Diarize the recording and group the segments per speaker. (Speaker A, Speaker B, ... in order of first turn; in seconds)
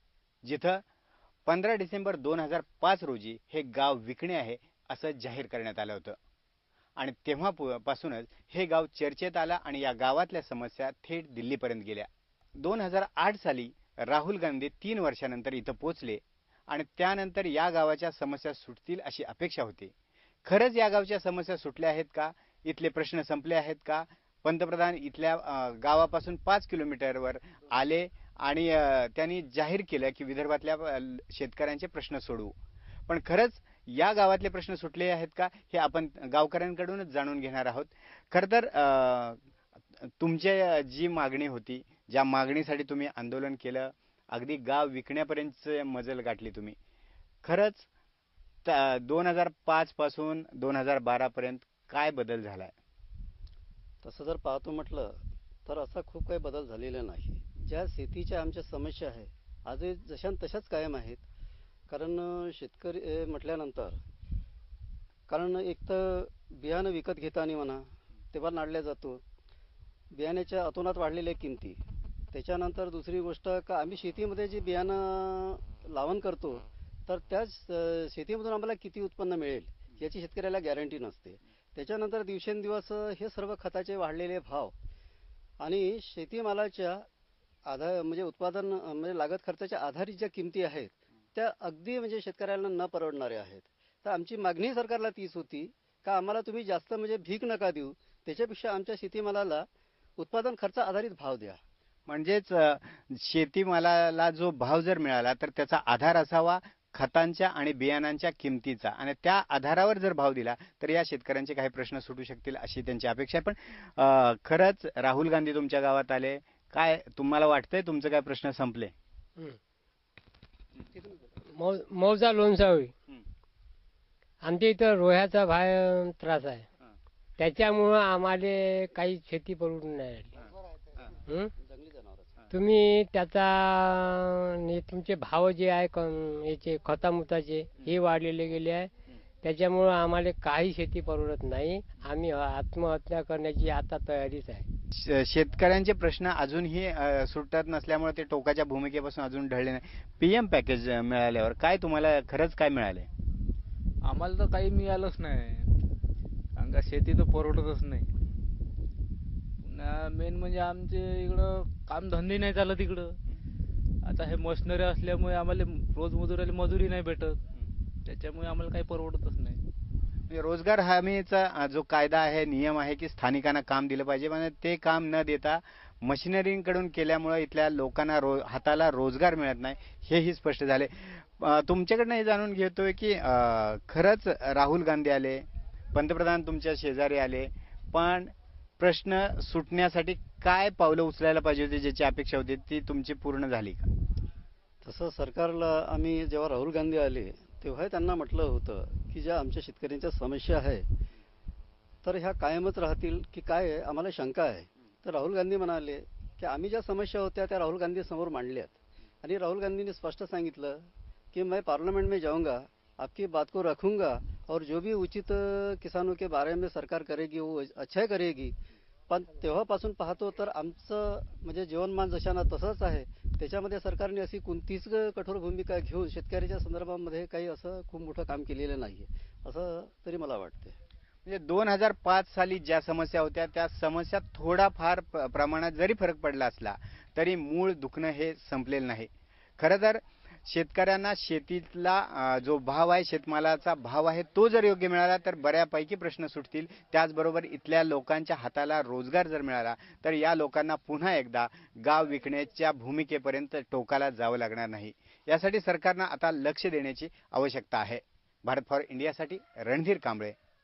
Speaker A: 0.4-0.8, 1.4-6.2, 7.0-19.9, 20.4-32.5, 33.1-39.4, 40.0-46.8, 47.4-47.9, 48.6-52.7, 102.1-118.9, 144.9-153.1, 170.3-193.9, 231.2-260.4
Speaker B: 54.0-61.2, 61.9-64.0, 65.3-69.2, 70.1-84.7, 85.6-87.0, 87.6-101.6, 131.6-132.4, 194.8-200.9, 202.0-218.6, 219.1-230.8
Speaker C: 121.4-122.9, 124.4-126.7, 127.4-130.4, 131.2-131.5, 132.5-138.9, 139.4-144.7
Speaker D: 154.0-155.7, 156.6-158.1, 159.6-163.2, 164.0-167.4, 168.0-169.6